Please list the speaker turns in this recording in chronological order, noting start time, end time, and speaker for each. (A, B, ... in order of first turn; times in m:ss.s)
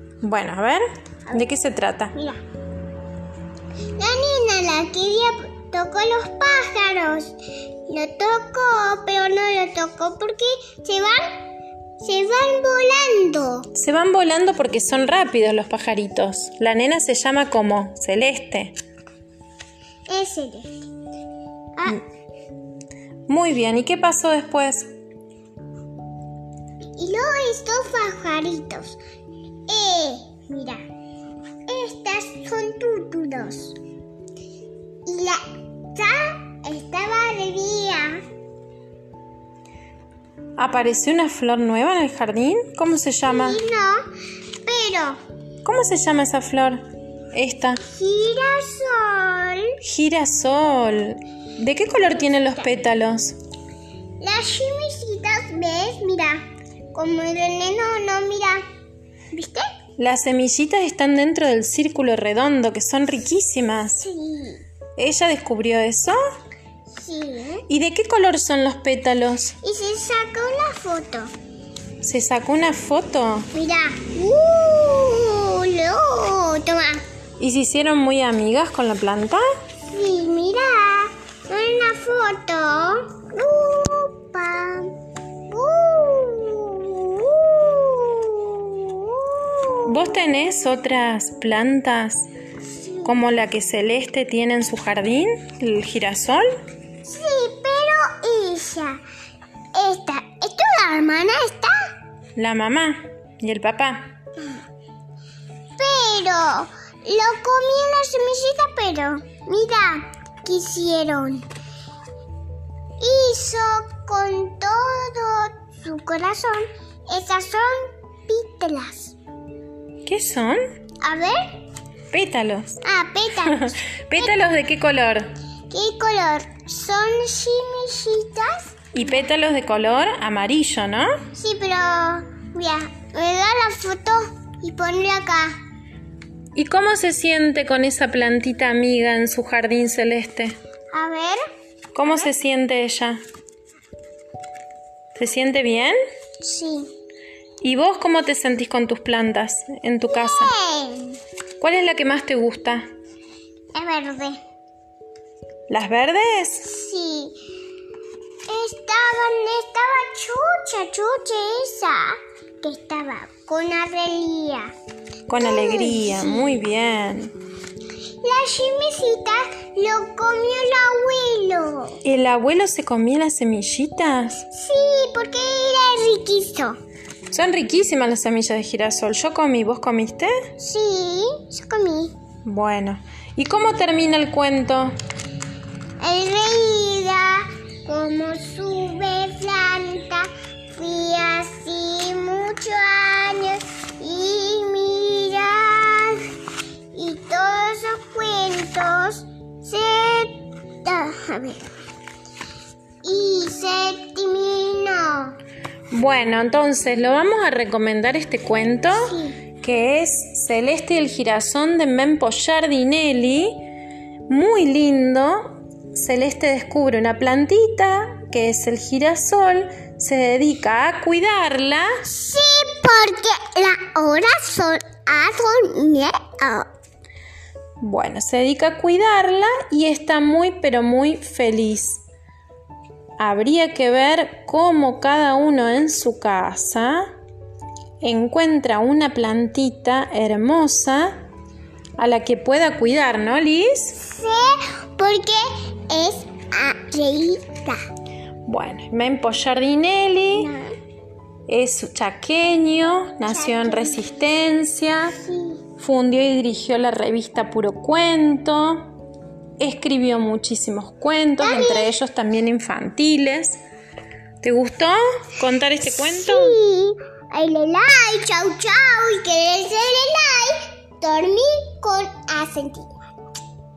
0:00.2-0:02.1 A
0:02.1-0:02.4 B
0:04.0-0:07.4 B
0:07.9-0:11.4 B
0:12.0-0:13.7 B
0:13.8-0:18.7 A
0:20.1-0:20.8 B
0:21.8-0:22.0 B
0:23.3-0:24.9 A
0:27.0-0:29.0 B
0:29.7-0:30.8 B
0:31.7-0:33.8 B
0:35.1-0:35.4 B
0:35.9-0:38.2 B
0:40.6-0:43.6 A
0:43.3-0:44.1 B
0:44.6-0:45.2 B
0:45.6-0:47.8 A
0:47.8-0:49.8 B
0:49.8-0:53.4 A
0:54.2-0:58.6 B
0:59.3-0:59.7 B
1:00.0-1:04.1 A
1:04.0-1:04.6 B
1:05.0-1:06.2 A
1:06.9-1:07.7 B
1:07.7-1:09.6 A
1:09.6-1:11.3 B
1:12.0-1:13.5 A
1:13.5-1:17.0 B
1:17.4-1:19.4 A
1:19.9-1:24.9 B
1:25.5-1:30.1 B
1:29.9-1:32.3 A
1:32.6-1:33.2 B
1:33.0-1:36.5 A
1:37.0-1:39.0 B
1:39.7-1:41.7 B
1:42.4-1:44.1 A
1:45.8-1:51.5 B
1:53.0-1:59.2 B
2:00.1-2:00.6 A
2:01.0-2:01.4 B
2:02.1-2:02.8 A
2:02.8-2:04.3 B
2:03.7-2:05.3 A
2:05.7-2:08.8 B
2:08.9-2:11.1 A
2:11.3-2:15.6 B
2:16.5-2:20.6 A
2:20.9-2:21.4 B
2:21.9-2:23.2 A
2:25.2-2:25.9 A
2:26.4-2:26.9 B
2:27.6-2:30.5 A
2:30.1-2:31.2 B
2:31.6-2:32.9 A
2:33.7-2:34.4 B
2:35.7-2:36.7 A
2:36.6-2:37.4 B
2:38.5-2:44.7 B
2:45.3-2:47.3 A
2:45.4-2:46.6 B
2:48.2-2:52.0 B
2:52.0-2:54.4 A
2:54.5-2:56.8 B
2:57.3-3:00.3 A
3:00.6-3:02.2 B
3:02.4-3:04.9 A
3:06.0-3:16.3 B
3:16.9-3:21.7 B
3:23.0-3:25.4 B
3:25.9-3:33.7 A
3:28.9-3:29.4 B
3:34.3-3:41.9 A
3:42.1-3:46.7 B
3:47.8-3:52.0 A
3:53.2-3:57.1 A
3:58.0-4:01.2 A
4:02.0-4:04.0 A
4:04.0-4:07.8 B
4:08.4-4:10.5 A
4:10.3-4:10.8 B
4:11.5-4:15.2 A
4:13.2-4:14.2 B
4:15.1-4:15.6 B
4:15.8-4:18.9 A
4:19.6-4:23.6 A
4:21.4-4:21.9 B
4:24.4-4:26.6 A
4:26.0-4:33.0 B